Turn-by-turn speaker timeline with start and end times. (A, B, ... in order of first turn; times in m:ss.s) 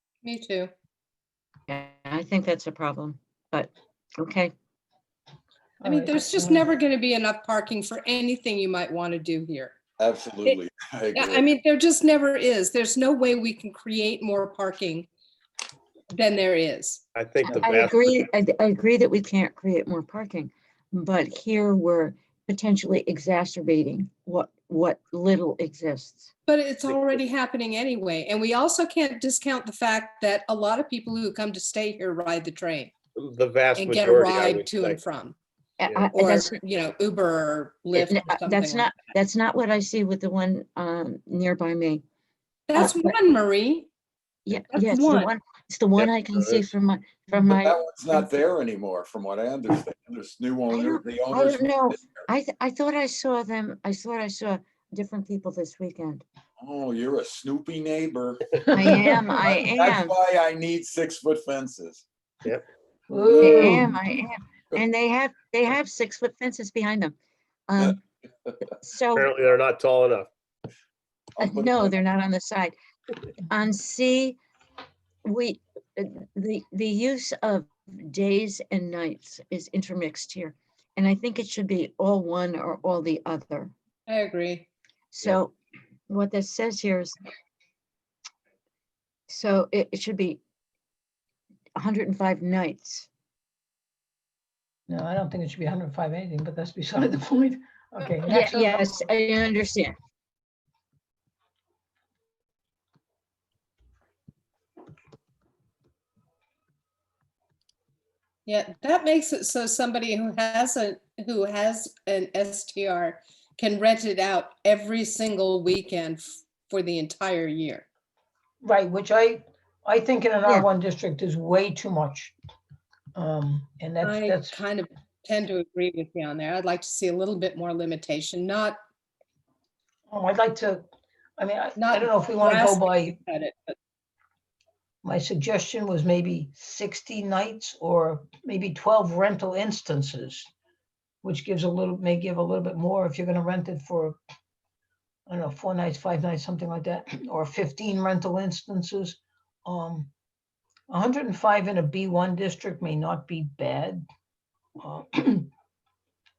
0:00.2-0:00.7 A
0:01.7-0:04.5 B
0:05.8-0:06.7 C
0:05.8-0:09.8 A
0:10.0-0:11.5 D
0:11.1-0:15.1 A
0:16.1-0:17.0 A
0:17.2-0:18.2 E
0:17.5-0:26.3 B
0:26.5-0:32.9 A
0:26.9-0:27.2 E
0:33.2-0:35.0 E
0:33.8-0:35.4 A
0:35.8-0:36.6 B
0:36.1-0:38.9 A
0:37.9-0:42.0 B
0:42.7-0:43.9 A
0:42.8-0:43.1 B
0:44.4-0:48.3 B
0:44.7-0:45.3 A
0:46.0-0:46.7 E
0:47.4-0:52.0 D
0:50.7-0:56.2 B
0:56.6-0:58.5 D
0:58.7-1:00.1 B
0:59.4-1:02.0 D
1:03.1-1:03.9 C
1:03.4-1:07.1 B
1:07.7-1:08.0 B
1:08.7-1:09.3 B
1:09.1-1:10.3 E
1:11.4-1:12.7 B
1:11.4-1:11.9 D
1:13.5-1:14.4 B
1:15.2-1:23.7 B
1:24.1-1:24.7 A
1:25.1-1:25.6 B
1:26.1-1:27.2 B
1:29.3-1:30.4 B
1:31.8-1:33.1 B
1:34.9-1:38.9 C
1:38.2-1:39.9 B
1:48.4-1:57.8 A
1:58.6-2:02.3 C
2:03.2-2:04.6 C
2:04.0-2:08.8 A
2:10.1-2:10.8 C
2:11.4-2:13.2 C
2:11.8-2:13.8 A
2:15.0-2:20.5 C
2:21.2-2:24.2 C
2:25.3-2:30.1 C
2:30.9-2:34.0 C
2:34.8-2:35.5 C